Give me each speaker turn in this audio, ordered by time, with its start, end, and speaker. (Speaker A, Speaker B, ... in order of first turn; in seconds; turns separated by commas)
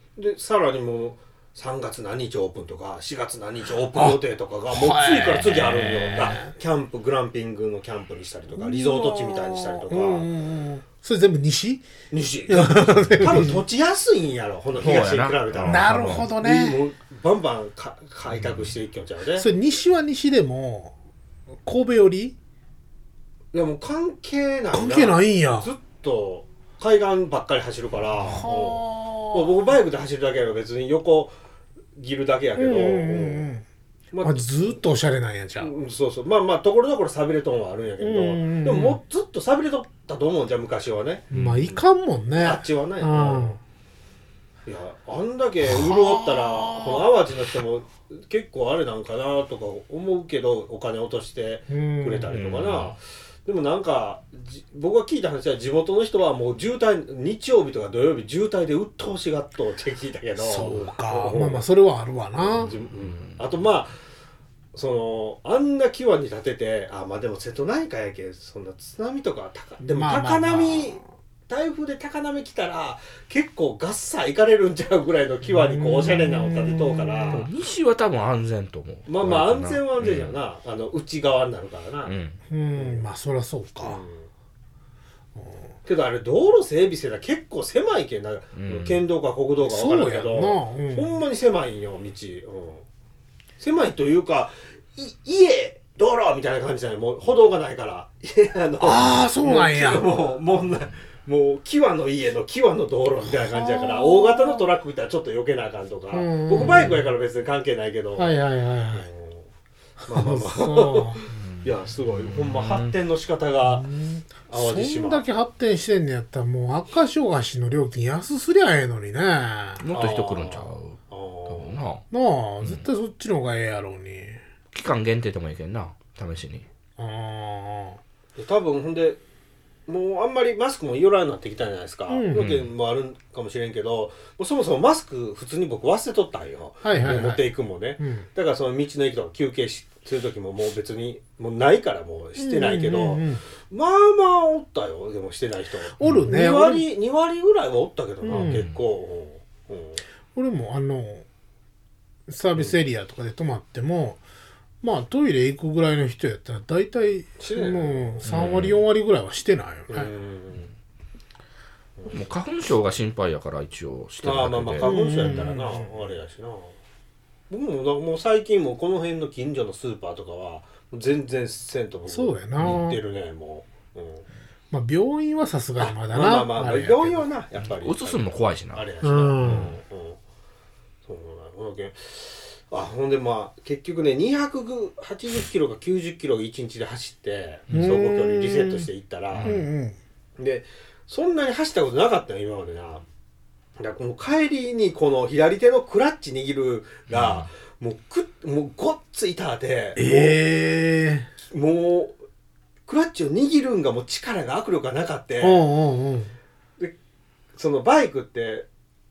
Speaker A: 0.2-10.3, Speaker B: 3.9-6.5, Speaker C: 5.7-6.1, Speaker B: 8.5-11.9, Speaker A: 12.1-19.5, Speaker B: 12.5-13.7, Speaker C: 14.8-16.3, Speaker B: 15.6-16.8, Speaker C: 18.4-18.7, Speaker B: 19.4-20.9, Speaker B: 21.6-22.4, Speaker A: 23.5-31.4, Speaker B: 24.7-25.7, Speaker B: 28.2-29.6, Speaker A: 31.9-33.5, Speaker B: 32.6-33.6, Speaker A: 34.1-34.8, Speaker B: 34.2-35.8, Speaker A: 35.6-43.6, Speaker B: 38.0-39.0, Speaker C: 41.3-41.7, Speaker B: 41.3-43.6, Speaker A: 44.7-61.7, Speaker B: 45.6-47.1, Speaker B: 51.7-52.3, Speaker C: 52.3-53.0, Speaker B: 60.4-62.7, Speaker A: 62.4-64.0, Speaker C: 62.6-63.5, Speaker A: 64.7-77.5, Speaker B: 69.8-71.1, Speaker B: 75.5-77.5, Speaker C: 77.3-80.3, Speaker A: 79.1-82.2, Speaker C: 82.0-82.4, Speaker B: 82.5-84.0, Speaker A: 82.8-83.1, Speaker A: 83.8-84.3, Speaker B: 85.4-85.7, Speaker A: 85.8-92.8, Speaker C: 88.5-89.1, Speaker B: 89.7-91.2, Speaker A: 93.6-109.5, Speaker B: 98.8-100.1, Speaker B: 103.2-104.7, Speaker B: 106.1-107.1, Speaker B: 108.2-109.1, Speaker B: 110.0-111.2, Speaker A: 110.0-113.9, Speaker C: 111.3-113.0, Speaker B: 113.6-119.8, Speaker A: 114.5-115.3, Speaker C: 119.8-122.0, Speaker A: 119.9-121.8, Speaker B: 122.1-124.4, Speaker C: 122.6-122.9, Speaker C: 124.7-126.7, Speaker B: 127.0-128.0, Speaker A: 128.3-129.2, Speaker A: 129.9-150.0, Speaker B: 132.1-132.4, Speaker C: 132.4-132.7, Speaker B: 136.8-137.4, Speaker B: 138.0-138.3, Speaker B: 142.4-143.4, Speaker B: 146.0-146.9, Speaker B: 148.2-148.7, Speaker C: 148.3-148.8, Speaker B: 150.3-151.2, Speaker B: 152.3-154.2, Speaker B: 154.8-160.1, Speaker A: 157.4-158.7, Speaker C: 158.2-158.8, Speaker A: 159.9-160.7, Speaker A: 162.0-162.3, Speaker C: 162.1-164.9, Speaker A: 164.2-166.8, Speaker B: 164.8-166.0, Speaker A: 167.5-174.3, Speaker B: 172.1-173.0, Speaker C: 172.6-172.8, Speaker B: 174.7-177.3, Speaker A: 175.8-180.2, Speaker C: 177.6-178.9, Speaker B: 179.0-179.8, Speaker A: 181.1-189.6, Speaker C: 187.7-187.9, Speaker B: 187.7-188.9, Speaker C: 189.3-189.6, Speaker B: 189.4-190.0, Speaker A: 190.4-193.1, Speaker A: 193.8-200.4, Speaker C: 197.1-197.5, Speaker B: 200.0-201.3, Speaker A: 201.5-202.2, Speaker A: 202.9-205.7, Speaker B: 205.4-206.3, Speaker A: 207.5-208.7